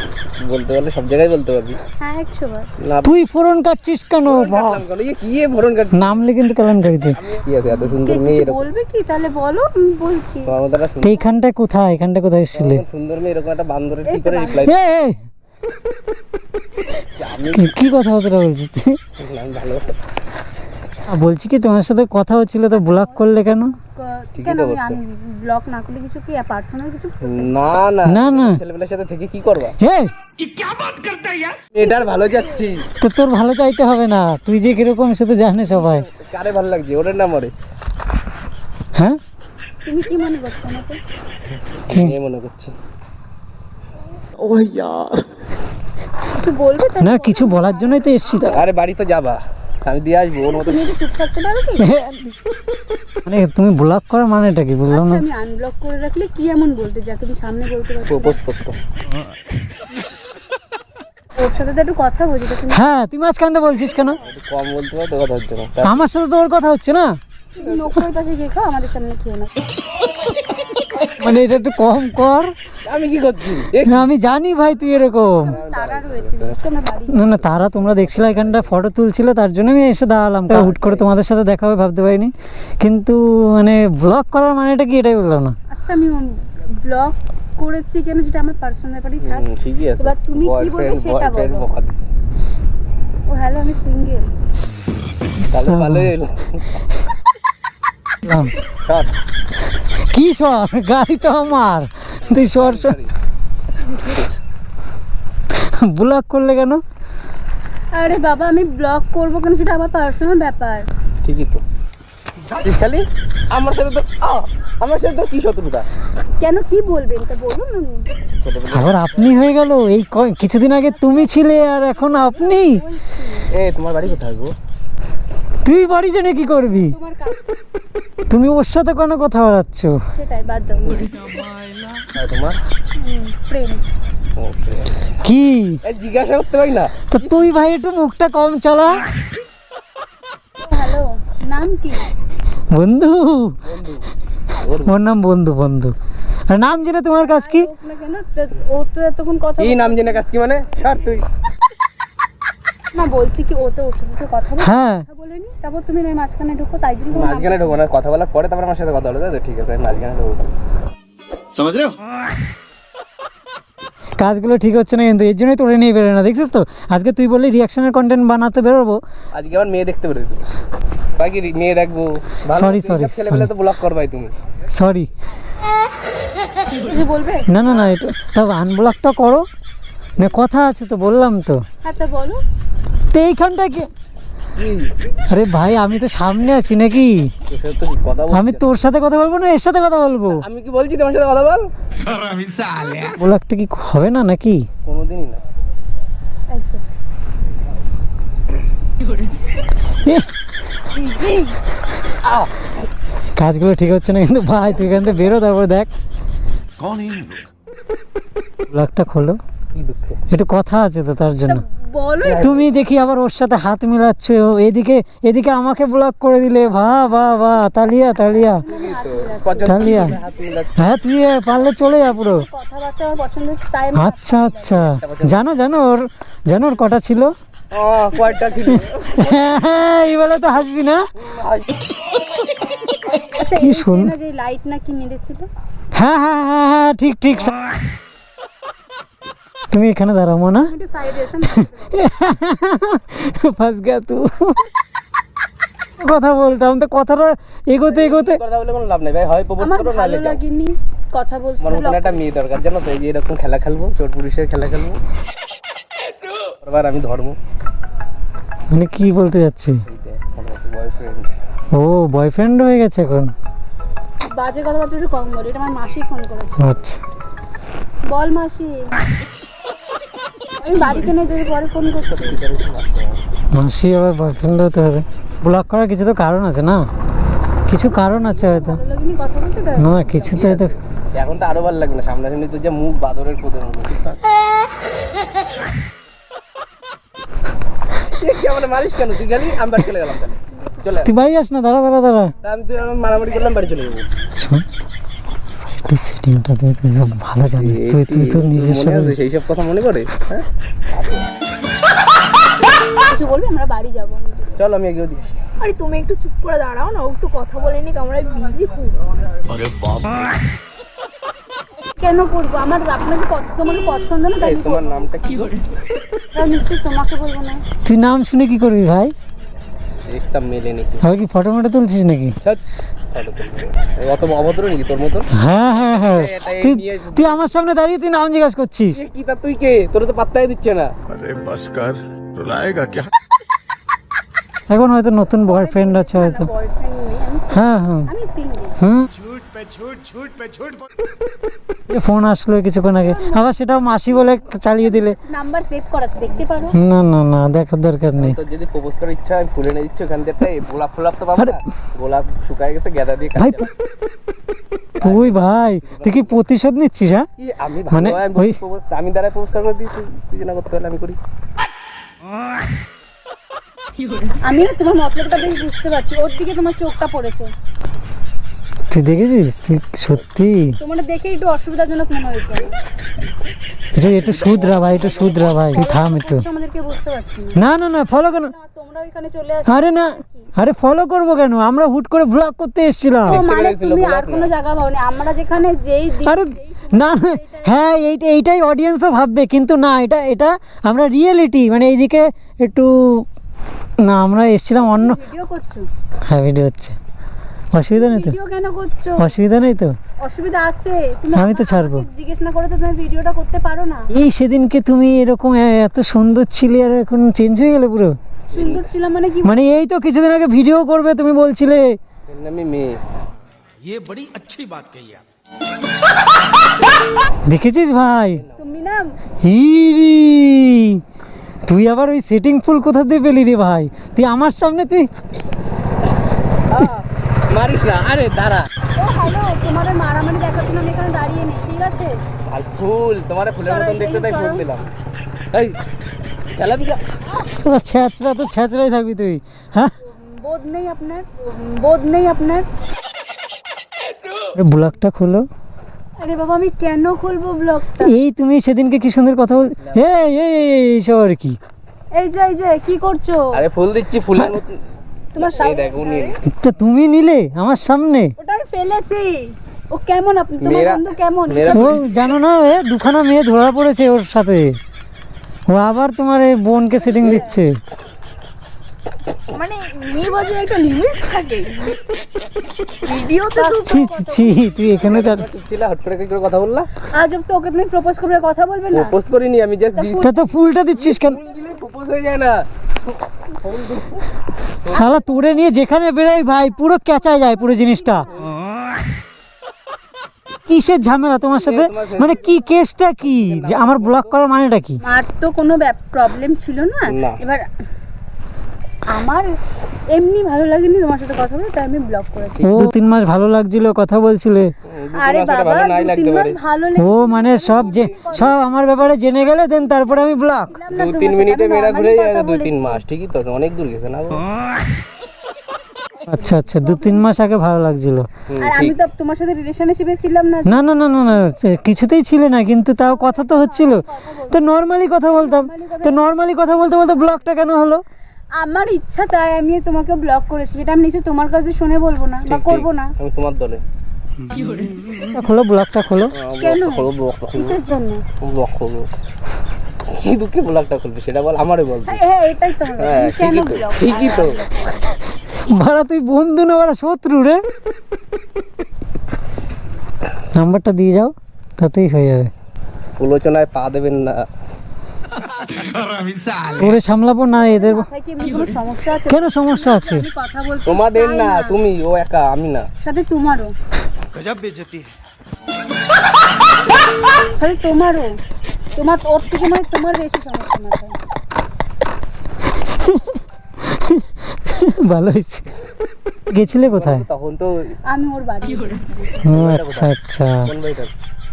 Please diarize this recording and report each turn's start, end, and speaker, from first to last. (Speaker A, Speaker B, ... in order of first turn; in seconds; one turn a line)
Speaker A: 0.4-1.8
Speaker B: 2.0-2.7
Speaker A: 2.8-3.2
Speaker C: 3.0-4.8
Speaker A: 4.2-6.2
Speaker C: 5.9-7.2
Speaker A: 7.2-8.6
Speaker B: 7.7-10.5
Speaker A: 10.5-11.2
Speaker C: 11.0-12.8
Speaker A: 12.5-14.7
Speaker B: 14.1-14.7
Speaker C: 14.7-15.2
Speaker A: 17.2-17.8
Speaker C: 17.5-19.0
Speaker A: 19.2-20.0
Speaker C: 21.1-23.8
Speaker B: 22.8-27.5
Speaker A: 24.4-25.0
Speaker A: 27.2-29.8
Speaker C: 28.1-28.6
Speaker C: 29.8-30.1
Speaker D: 30.4-31.6
Speaker A: 31.7-32.9
Speaker B: 32.0-32.5
Speaker C: 33.0-36.1
Speaker A: 35.7-37.5
Speaker B: 39.9-41.0
Speaker A: 41.9-42.7
Speaker E: 44.4-45.2
Speaker B: 46.3-48.4
Speaker C: 47.0-48.6
Speaker A: 48.4-50.8
Speaker B: 50.5-51.9
Speaker C: 51.8-52.4
Speaker C: 53.2-55.2
Speaker B: 54.9-58.4
Speaker A: 58.1-58.8
Speaker B: 61.4-62.8
Speaker C: 62.7-64.2
Speaker A: 64.2-66.0
Speaker C: 65.8-67.2
Speaker B: 67.6-69.5
Speaker C: 71.1-72.5
Speaker A: 72.9-74.1
Speaker C: 73.9-75.5
Speaker B: 74.9-77.4
Speaker A: 75.3-76.6
Speaker C: 77.1-85.6
Speaker A: 77.5-78.8
Speaker A: 80.5-81.1
Speaker B: 85.7-89.5
Speaker A: 89.2-92.0
Speaker B: 90.0-91.7
Speaker B: 93.3-94.3
Speaker C: 95.4-96.1
Speaker A: 95.5-96.6
Speaker C: 98.2-98.5
Speaker C: 100.0-103.0
Speaker A: 102.3-103.1
Speaker B: 103.7-104.4
Speaker C: 105.5-106.8
Speaker B: 107.9-110.9
Speaker A: 111.2-111.6
Speaker A: 112.5-115.9
Speaker B: 116.4-118.1
Speaker A: 118.4-119.5
Speaker C: 118.7-122.8
Speaker B: 120.8-123.5
Speaker A: 123.5-124.5
Speaker C: 125.7-127.0
Speaker B: 126.3-127.5
Speaker C: 128.3-130.0
Speaker B: 130.1-131.1
Speaker D: 131.3-131.9
Speaker A: 132.1-132.6
Speaker B: 133.0-133.8
Speaker A: 134.4-135.1
Speaker C: 135.2-135.8
Speaker A: 135.8-137.4
Speaker C: 137.1-139.1
Speaker B: 140.6-142.1
Speaker C: 142.7-143.6
Speaker A: 143.7-144.9
Speaker C: 144.9-146.0
Speaker C: 146.5-147.7
Speaker B: 147.2-150.2
Speaker A: 149.6-151.2
Speaker B: 152.9-157.8
Speaker C: 154.6-155.1
Speaker A: 157.1-160.5
Speaker E: 161.6-161.9
Speaker C: 164.2-169.0
Speaker A: 169.3-170.4
Speaker A: 171.2-174.3
Speaker C: 172.5-173.5
Speaker C: 174.7-175.1
Speaker B: 176.7-177.5
Speaker C: 177.5-179.4
Speaker A: 177.7-177.9
Speaker C: 180.2-181.6
Speaker B: 181.8-182.4
Speaker C: 183.1-183.9
Speaker A: 184.6-184.9
Speaker C: 185.3-187.3
Speaker A: 187.5-188.7
Speaker C: 188.3-190.4
Speaker A: 190.3-191.7
Speaker D: 192.1-193.1
Speaker C: 193.1-194.7
Speaker A: 194.9-195.4
Speaker B: 196.5-196.8
Speaker A: 200.9-201.5
Speaker A: 202.2-202.7
Speaker C: 203.4-205.9
Speaker E: 206.8-207.5
Speaker C: 208.7-209.4
Speaker A: 209.7-210.2
Speaker C: 210.3-211.6
Speaker B: 211.5-212.5
Speaker A: 212.2-212.7
Speaker C: 212.4-218.6
Speaker B: 218.0-220.2
Speaker A: 218.7-221.0
Speaker C: 219.6-220.2
Speaker C: 220.8-222.5
Speaker B: 221.5-224.9
Speaker C: 223.9-227.3
Speaker A: 224.8-225.5
Speaker A: 227.7-229.4
Speaker B: 228.3-228.8
Speaker C: 228.7-231.1
Speaker A: 231.2-231.8
Speaker B: 233.2-235.5
Speaker C: 233.6-234.1
Speaker C: 235.9-237.6
Speaker C: 239.7-240.7
Speaker B: 240.7-242.0
Speaker C: 241.9-244.7
Speaker C: 246.0-248.4
Speaker A: 247.9-250.4
Speaker B: 249.6-252.3
Speaker A: 251.6-255.0
Speaker A: 256.5-257.4
Speaker C: 258.7-259.8
Speaker A: 259.9-261.3
Speaker C: 261.7-263.3
Speaker B: 264.2-266.7
Speaker C: 266.6-267.0
Speaker B: 268.1-268.9
Speaker B: 270.6-272.4
Speaker A: 272.1-273.2
Speaker C: 273.5-276.9
Speaker C: 277.7-278.8
Speaker B: 277.8-280.4
Speaker C: 279.8-280.7
Speaker A: 280.3-284.2
Speaker A: 288.1-291.1
Speaker C: 291.0-292.3
Speaker A: 292.4-294.1
Speaker C: 294.4-294.6
Speaker C: 295.6-299.2
Speaker A: 297.6-300.4
Speaker B: 303.1-304.6
Speaker A: 304.6-305.4
Speaker B: 305.6-308.9
Speaker D: 305.6-308.9
Speaker E: 309.5-310.4
Speaker B: 312.0-315.1
Speaker A: 314.4-315.6
Speaker B: 316.3-317.6
Speaker C: 317.9-319.1
Speaker A: 320.1-321.1
Speaker C: 321.0-322.4
Speaker A: 323.1-327.5
Speaker C: 325.3-329.0
Speaker A: 328.9-330.9
Speaker E: 331.1-333.1
Speaker C: 334.7-336.5
Speaker B: 335.4-338.8
Speaker C: 337.5-338.1
Speaker C: 338.8-339.1
Speaker E: 339.4-339.9
Speaker C: 341.9-345.1
Speaker B: 342.9-346.8
Speaker C: 346.7-348.4
Speaker A: 348.2-353.7
Speaker C: 353.4-353.7
Speaker C: 355.0-357.3
Speaker A: 355.0-356.4
Speaker A: 357.4-361.2
Speaker C: 357.9-358.6
Speaker B: 364.4-367.5
Speaker C: 368.9-370.8
Speaker B: 370.8-372.7
Speaker C: 373.9-376.4
Speaker A: 374.0-375.7
Speaker B: 375.7-377.6
Speaker C: 377.6-378.5
Speaker B: 378.1-380.5
Speaker C: 379.7-383.4
Speaker A: 383.2-384.5
Speaker B: 383.3-387.8
Speaker C: 386.2-393.3
Speaker C: 394.0-395.2
Speaker B: 394.8-395.9
Speaker C: 396.3-397.0
Speaker C: 397.7-398.4
Speaker B: 397.9-399.4
Speaker C: 399.2-399.9
Speaker B: 400.2-404.1
Speaker C: 401.4-402.1
Speaker C: 404.1-408.2
Speaker B: 408.5-409.6
Speaker A: 408.5-408.9
Speaker C: 409.4-412.0
Speaker A: 412.3-413.0
Speaker D: 413.9-415.2
Speaker C: 417.5-418.4
Speaker B: 418.6-419.0
Speaker C: 419.4-421.0
Speaker C: 421.7-425.1
Speaker A: 426.7-428.7
Speaker B: 429.0-432.2
Speaker A: 432.5-434.9
Speaker B: 433.6-434.6
Speaker A: 435.5-435.8
Speaker A: 436.6-437.0
Speaker C: 437.6-439.9
Speaker B: 440.0-442.6
Speaker C: 444.5-445.4
Speaker B: 446.2-448.1
Speaker C: 448.0-451.6
Speaker B: 452.1-453.5
Speaker A: 453.5-454.8
Speaker B: 455.3-456.4
Speaker A: 455.4-456.4
Speaker C: 456.5-458.3
Speaker B: 458.4-462.0
Speaker A: 460.6-462.1
Speaker C: 461.7-464.8
Speaker C: 465.7-467.7
Speaker B: 466.9-467.6
Speaker B: 469.5-472.0
Speaker B: 473.0-474.6
Speaker C: 473.8-475.5
Speaker A: 475.0-476.9
Speaker B: 477.1-479.1
Speaker A: 478.9-480.3
Speaker B: 480.0-480.4
Speaker C: 480.2-481.4
Speaker A: 480.9-482.6
Speaker A: 483.5-484.3
Speaker C: 484.9-488.3
Speaker C: 490.7-495.0
Speaker A: 491.5-494.4
Speaker B: 495.0-497.7
Speaker A: 497.1-497.4
Speaker B: 499.1-499.5
Speaker B: 500.1-502.7
Speaker A: 502.6-502.9
Speaker C: 502.6-504.7
Speaker A: 504.9-506.6
Speaker B: 505.2-508.6
Speaker C: 507.0-510.7
Speaker B: 509.7-513.0
Speaker A: 510.9-514.5
Speaker C: 516.3-518.3
Speaker B: 516.8-517.2
Speaker A: 518.5-519.0
Speaker B: 518.6-520.8
Speaker C: 520.7-528.0
Speaker B: 523.0-527.6
Speaker B: 528.5-533.1
Speaker A: 532.5-533.8
Speaker C: 535.3-536.3
Speaker A: 536.3-537.8
Speaker B: 536.6-538.2
Speaker A: 538.4-539.1
Speaker A: 540.1-542.2
Speaker B: 542.1-545.1
Speaker A: 543.0-544.6
Speaker C: 545.6-547.6
Speaker C: 550.5-552.5
Speaker A: 553.2-554.4
Speaker D: 555.5-556.9
Speaker C: 556.8-558.1
Speaker B: 557.5-561.8
Speaker C: 559.3-560.3
Speaker A: 560.9-562.9
Speaker B: 563.0-563.7
Speaker E: 564.3-565.1
Speaker B: 567.6-568.3
Speaker B: 569.0-571.1
Speaker C: 572.8-575.7
Speaker C: 576.5-577.2
Speaker A: 576.7-578.0
Speaker B: 578.0-579.5
Speaker C: 579.5-580.7
Speaker A: 579.5-580.1
Speaker A: 580.6-581.1